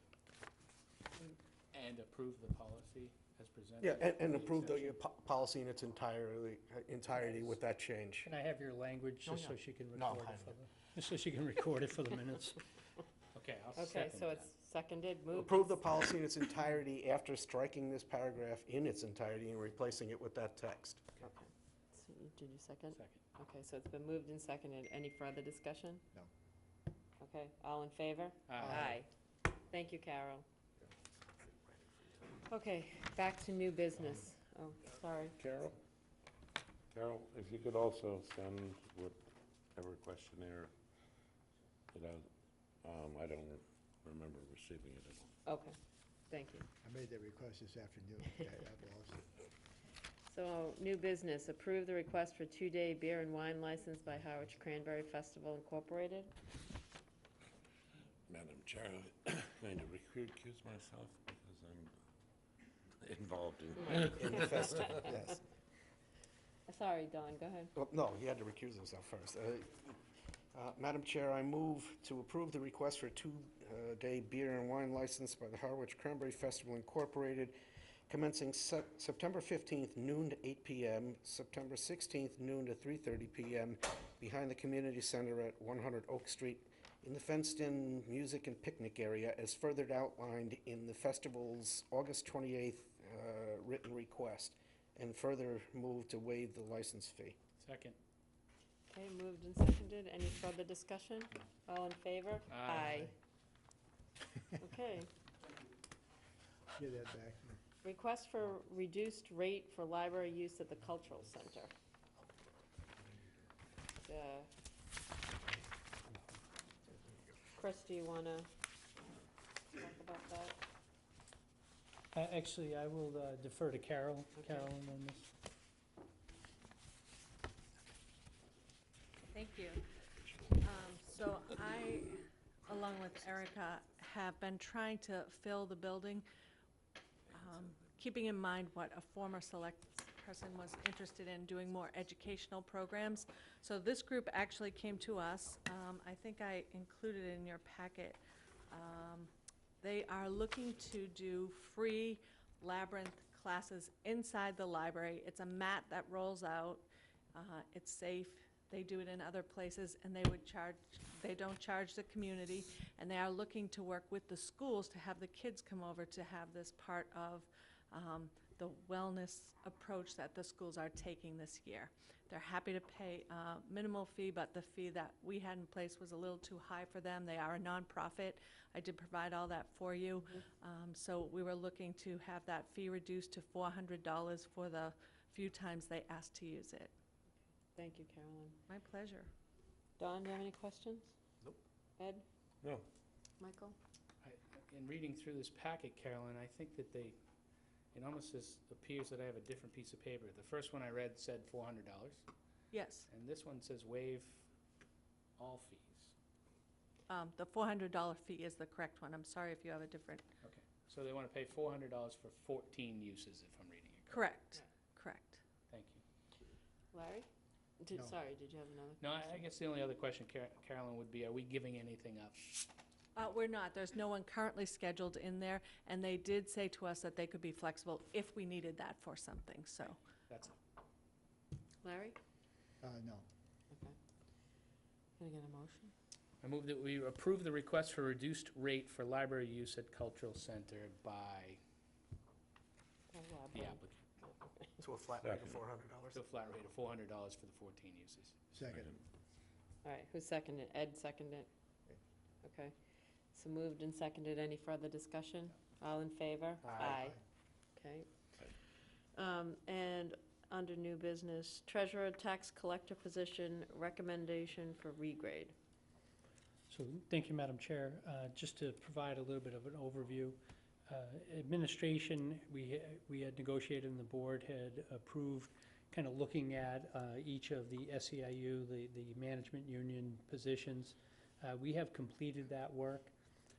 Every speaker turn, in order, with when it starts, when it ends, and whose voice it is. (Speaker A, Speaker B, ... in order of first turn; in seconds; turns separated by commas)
Speaker A: 1.7-5.0, Speaker B: 3.8-8.3, Speaker C: 8.2-12.7, Speaker B: 9.3-10.5, Speaker A: 13.3-14.4, Speaker D: 13.8-15.8, Speaker B: 15.3-21.0, Speaker D: 21.2-26.0, Speaker A: 22.9-23.2, Speaker D: 27.2-30.5, Speaker A: 28.5-29.0, Speaker D: 32.5-35.4, Speaker E: 35.4-35.8, Speaker E: 36.9-39.2, Speaker E: 39.8-40.7, Speaker E: 41.9-42.3, Speaker E: 42.8-45.4, Speaker D: 45.5-45.8, Speaker D: 46.3-46.7, Speaker F: 46.8-49.3, Speaker D: 50.3-56.3, Speaker E: 58.3-61.9, Speaker E: 63.0-65.0, Speaker D: 63.8-64.2, Speaker B: 64.0-65.3, Speaker D: 64.8-65.1, Speaker D: 66.7-67.7, Speaker B: 67.8-70.0, Speaker B: 70.5-77.6, Speaker B: 78.1-97.4, Speaker A: 97.6-98.0, Speaker D: 98.9-103.1, Speaker A: 102.5-103.1, Speaker D: 104.6-105.1, Speaker F: 106.8-107.6, Speaker D: 107.8-111.7, Speaker D: 114.0-114.5, Speaker D: 117.5-118.5, Speaker D: 119.7-120.6, Speaker C: 122.1-125.3, Speaker G: 129.3-129.8, Speaker G: 130.6-136.2, Speaker G: 137.3-149.3, Speaker G: 149.8-186.9, Speaker D: 187.8-188.6, Speaker G: 188.7-189.3, Speaker D: 190.0-191.2, Speaker D: 192.0-192.2, Speaker D: 193.4-193.8, Speaker A: 194.2-197.2, Speaker A: 197.9-202.2, Speaker G: 202.7-203.1, Speaker A: 203.1-204.5, Speaker A: 205.4-206.1, Speaker G: 207.1-210.3, Speaker A: 210.4-214.3, Speaker G: 214.1-215.4, Speaker A: 215.7-216.0, Speaker D: 216.9-217.3, Speaker D: 217.8-219.4, Speaker A: 219.0-222.5, Speaker G: 223.2-230.0, Speaker A: 230.3-230.6, Speaker D: 231.8-232.2, Speaker F: 232.8-233.3, Speaker D: 233.7-234.0, Speaker D: 235.2-235.9, Speaker A: 236.4-241.6, Speaker D: 243.1-244.7, Speaker A: 243.5-244.0, Speaker B: 244.8-246.2, Speaker E: 245.2-245.6, Speaker A: 246.1-248.4, Speaker F: 248.5-248.9, Speaker E: 248.6-249.0, Speaker D: 249.8-251.5, Speaker D: 252.4-252.7, Speaker D: 253.3-257.2, Speaker F: 256.8-257.2, Speaker D: 257.8-258.1, Speaker D: 259.2-265.5, Speaker C: 266.7-283.1